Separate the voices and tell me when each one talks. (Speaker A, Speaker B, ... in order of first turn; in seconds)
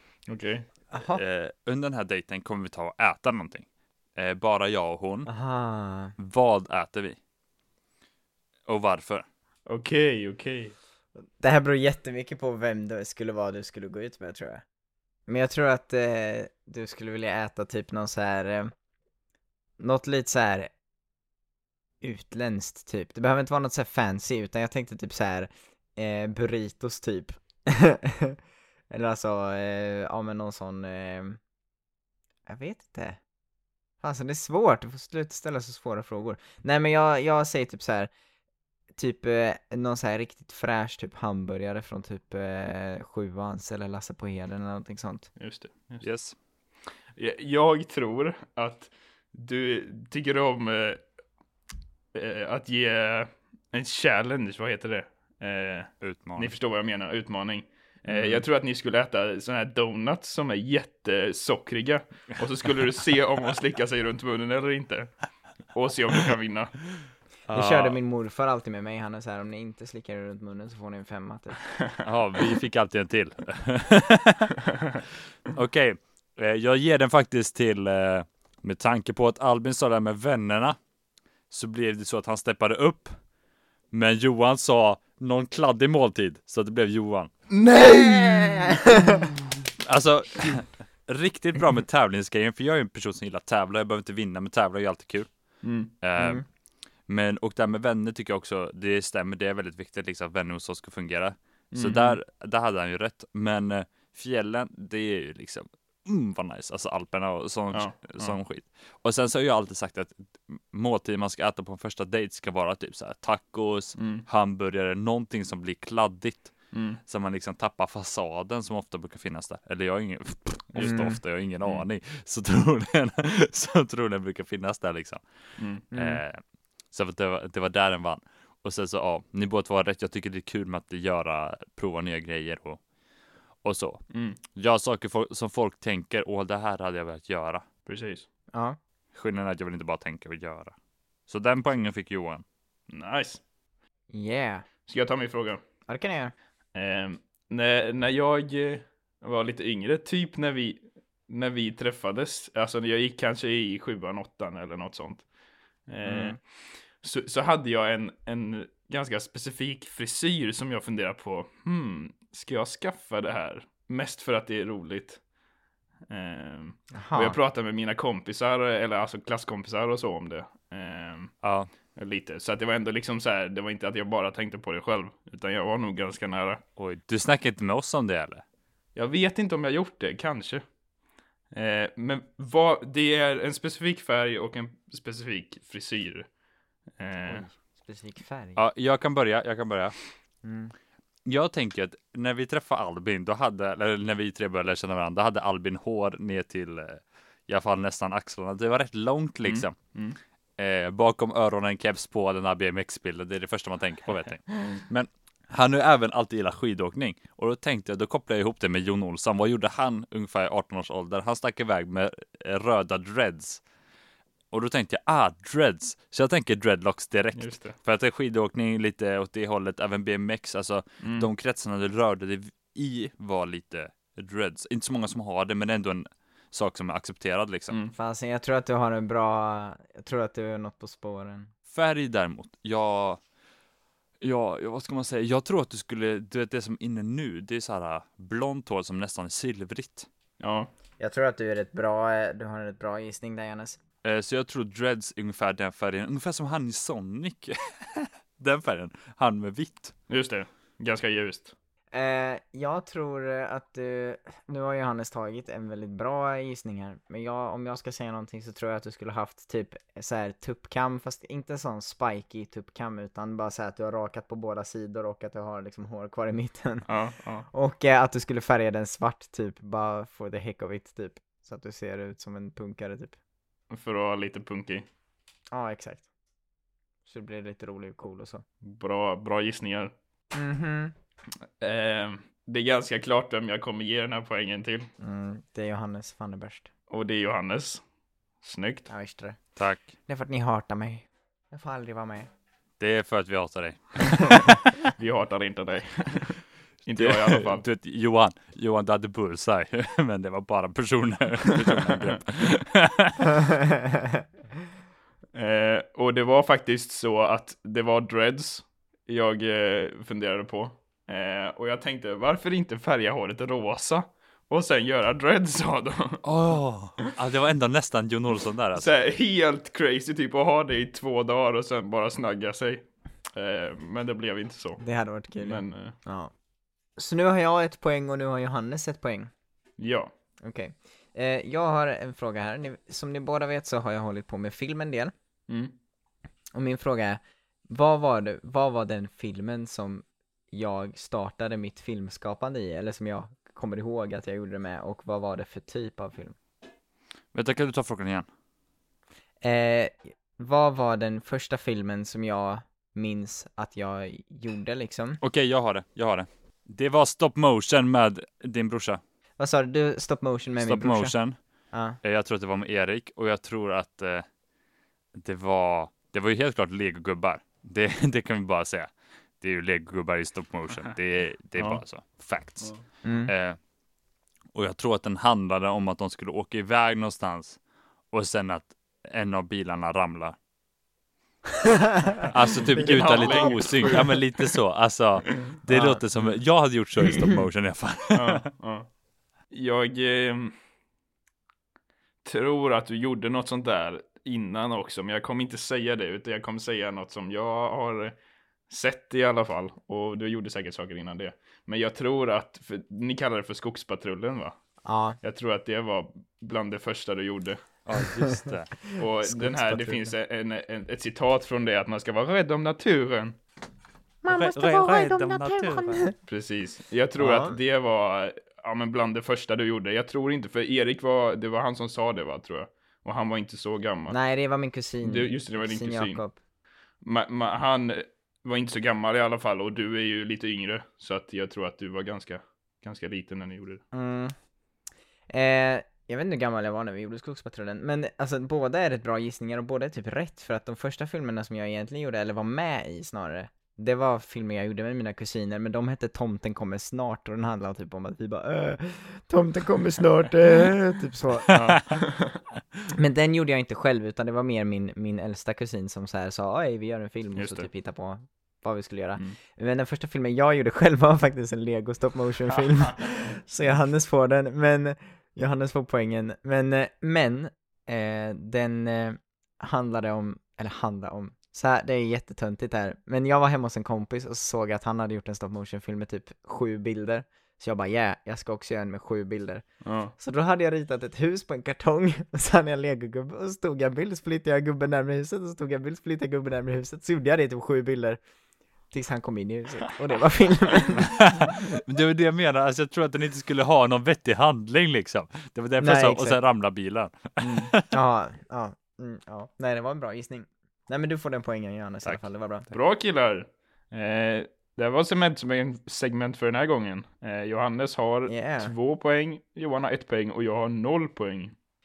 Speaker A: 0.3-0.7, 9.7-10.8, 45.4-46.0, 47.2-51.0, 52.1-65.1, 65.7-66.8, 87.5-89.2, 95.6-95.9, 101.7-102.2, 107.7-108.4, 114.0-114.3, 116.7-117.0, 120.7-121.0, 125.6-125.8, 134.1-134.4, 137.9-138.3, 142.9-143.4, 144.9-145.6, 146.8-155.2, 155.9-156.4, 157.0-165.2, 166.1-171.3, 171.9-176.6, 178.9-180.6, 181.5-186.3, 187.0-187.5, 199.4-200.2, 217.4-217.8, 221.0-221.3, 227.7-227.9, 240.4-240.7, 250.1-251.5, 266.9-267.5, 273.7-274.9, 278.6-279.9, 281.6-284.9, 286.9-287.8, 288.4-288.9, 294.8-297.6, 301.8-302.1, 305.3-316.2, 318.8-324.8, 325.4-326.0, 329.8-330.1, 335.5-335.8, 372.6-372.8, 382.6-384.5, 388.1-388.9, 389.5-390.6, 392.2-398.2, 398.7-404.6, 405.2-407.6, 409.0-413.4, 416.3-424.2, 425.0-426.2, 427.0-433.8, 451.5-452.4, 457.4-457.7, 479.8-480.1, 497.4-497.7, 502.7-511.6
Speaker B: 0.9-1.2, 5.3-6.1, 11.4-14.6, 15.3-18.7, 19.8-20.7, 22.0-28.4, 28.9-31.4, 32.5-33.2, 34.0-38.1, 39.0-45.3, 67.5-71.6, 88.5-89.2, 96.2-96.4, 120.8-121.2, 125.9-126.2, 138.5-138.8, 144.1-144.7, 145.9-146.3, 156.1-156.4, 167.0-167.4, 187.3-188.6, 190.4-190.7, 227.9-231.5, 241.0-243.8, 251.9-266.9, 267.5-273.2, 275.5-276.1, 277.1-278.4, 280.3-280.9, 285.0-286.7, 288.9-289.4, 290.1-292.3, 303.5-304.2, 324.8-326.3, 327.0-329.3, 330.4-335.1, 336.5-346.4, 349.4-355.2, 359.4-361.1, 361.7-362.0, 373.0-373.3, 381.6-382.2, 383.1-383.5, 385.7-386.0, 404.9-405.2, 409.2-410.1, 414.2-416.2, 417.2-417.6, 424.1-426.4, 433.9-434.3, 435.3-451.5, 452.9-479.6, 480.2-488.2, 488.9-491.3, 495.8-496.4, 497.7-502.7, 508.3-508.7
Speaker C: 1.1-5.3, 6.2-7.2, 8.7-9.2, 46.0-46.4, 56.0-56.5, 67.5-68.0, 72.0-74.6, 75.5-80.8, 81.5-83.1, 83.9-87.3, 89.8-95.3, 96.0-96.4, 97.1-116.5, 117.1-125.2, 125.9-126.4, 126.9-132.8, 133.6-134.0, 134.5-137.6, 139.1-140.8, 141.3-142.4, 171.4-171.7, 176.8-178.4, 188.6-189.9, 191.3-199.8, 200.6-213.6, 214.5-227.8, 231.7-233.2, 234.2-240.1, 244.0-249.9, 289.6-289.9, 292.8-294.6, 296.9-303.3, 316.2-318.9, 347.3-348.3, 355.2-359.0, 360.6-361.4, 362.0-364.3, 365.2-368.9, 369.4-373.6, 374.5-377.6, 378.1-380.4, 382.3-388.4, 407.9-408.8, 414.3-416.1, 451.5-451.8, 491.0-497.9